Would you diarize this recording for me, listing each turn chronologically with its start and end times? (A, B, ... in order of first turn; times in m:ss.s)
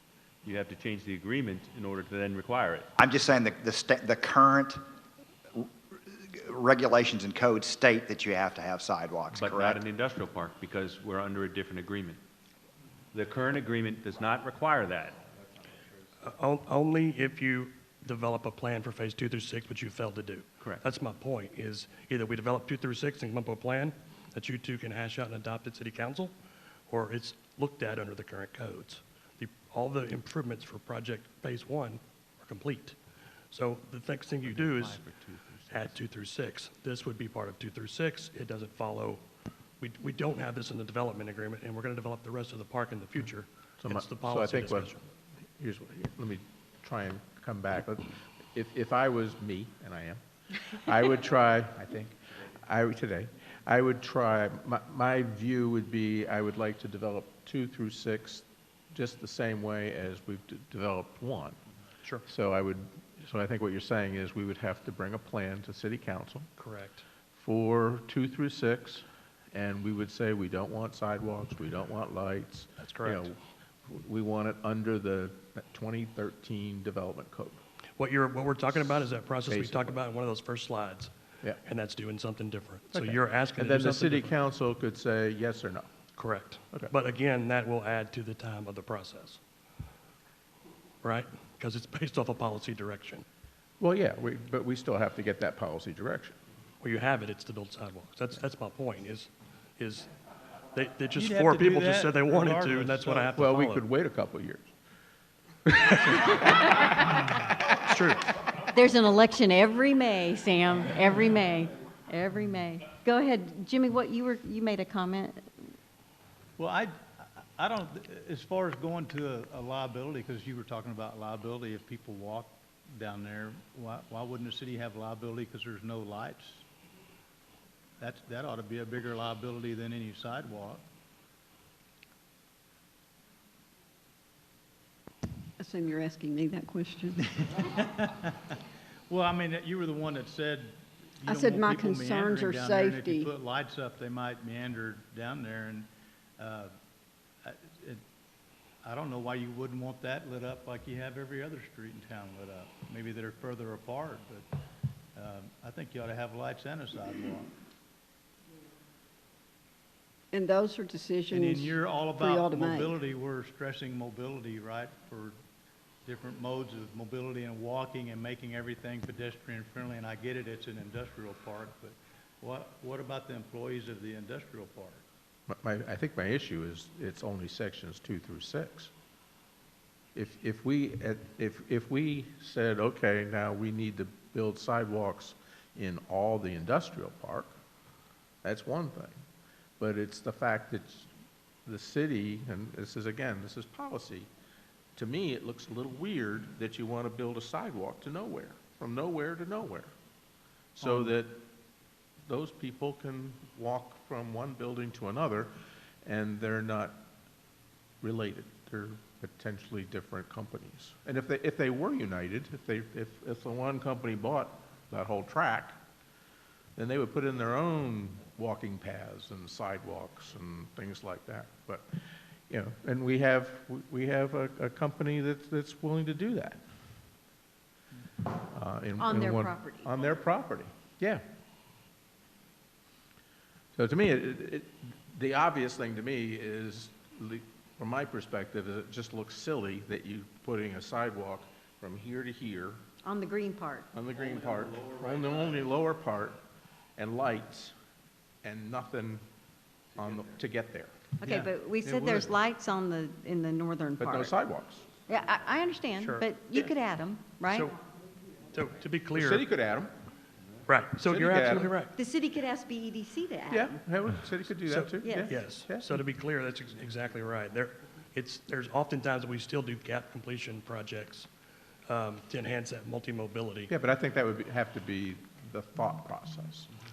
0:00.4-0:02.9 A
0:03.0-0:04.8 B
0:05.6-0:09.8 B
0:09.3-0:12.2 A
0:13.1-0:15.3 A
0:16.2-0:26.3 C
0:26.9-0:33.0 C
0:33.5-0:35.0 C
0:34.4-0:35.9 A
0:35.7-0:39.2 C
0:39.8-0:45.0 C
0:43.8-0:45.1 D
0:45.6-1:01.6 D
1:02.3-1:06.5 D
1:06.6-1:07.0 C
1:07.4-1:17.6 D
1:12.8-1:13.4 C
1:18.0-1:21.1 C
1:19.4-1:20.0 D
1:21.6-1:24.4 C
1:22.9-1:25.9 D
1:26.2-1:29.4 C
1:31.0-1:33.2 C
1:33.8-1:36.4 D
1:36.8-1:40.1 C
1:40.7-1:43.8 C
1:41.2-1:43.4 E
1:43.4-1:44.7 D
1:46.0-1:47.1 C
1:46.4-1:46.9 F
1:47.8-1:48.3 C
1:48.6-1:55.5 F
1:56.6-2:06.6 E
2:08.0-2:10.8 E
2:15.6-2:17.2 G
2:17.5-2:18.3 E
2:19.1-2:26.7 E
2:21.3-2:23.3 G
2:27.4-2:28.0 E
2:28.8-2:34.5 E
2:35.2-2:37.5 E
2:40.3-2:41.7 G
2:41.3-2:45.4 E
2:42.2-2:42.9 G
2:46.0-2:55.0 E
2:55.5-2:58.9 D
3:00.2-3:07.6 D
3:08.4-3:09.2 D
3:09.8-3:11.1 D
3:11.7-3:14.3 D
3:15.0-3:19.9 D
3:20.8-3:21.4 D
3:20.8-3:21.1 E
3:22.3-3:25.5 D
3:26.0-3:27.0 D
3:28.0-3:35.8 D
3:36.8-3:41.9 D
3:42.5-3:46.6 D
3:48.5-3:51.2 D
3:49.0-3:50.2 F
3:53.8-4:02.8 D
4:03.0-4:03.9 F
4:03.9-4:06.4 D
4:04.2-4:05.5 E
4:07.0-4:07.7 D
4:08.4-4:09.2 D
4:10.0-4:10.9 D
4:11.2-4:14.3 F
4:14.0-4:14.9 D
4:15.1-4:17.7 F
4:16.0-4:16.3 C
4:18.5-4:19.4 C
4:19.1-4:19.9 D
4:20.7-4:21.9 C
4:21.0-4:21.7 D
4:22.0-4:23.8 F
4:23.5-4:26.0 D
4:24.7-4:31.3 C
4:25.0-4:25.3 F
4:31.9-4:33.7 C
4:33.7-4:36.7 D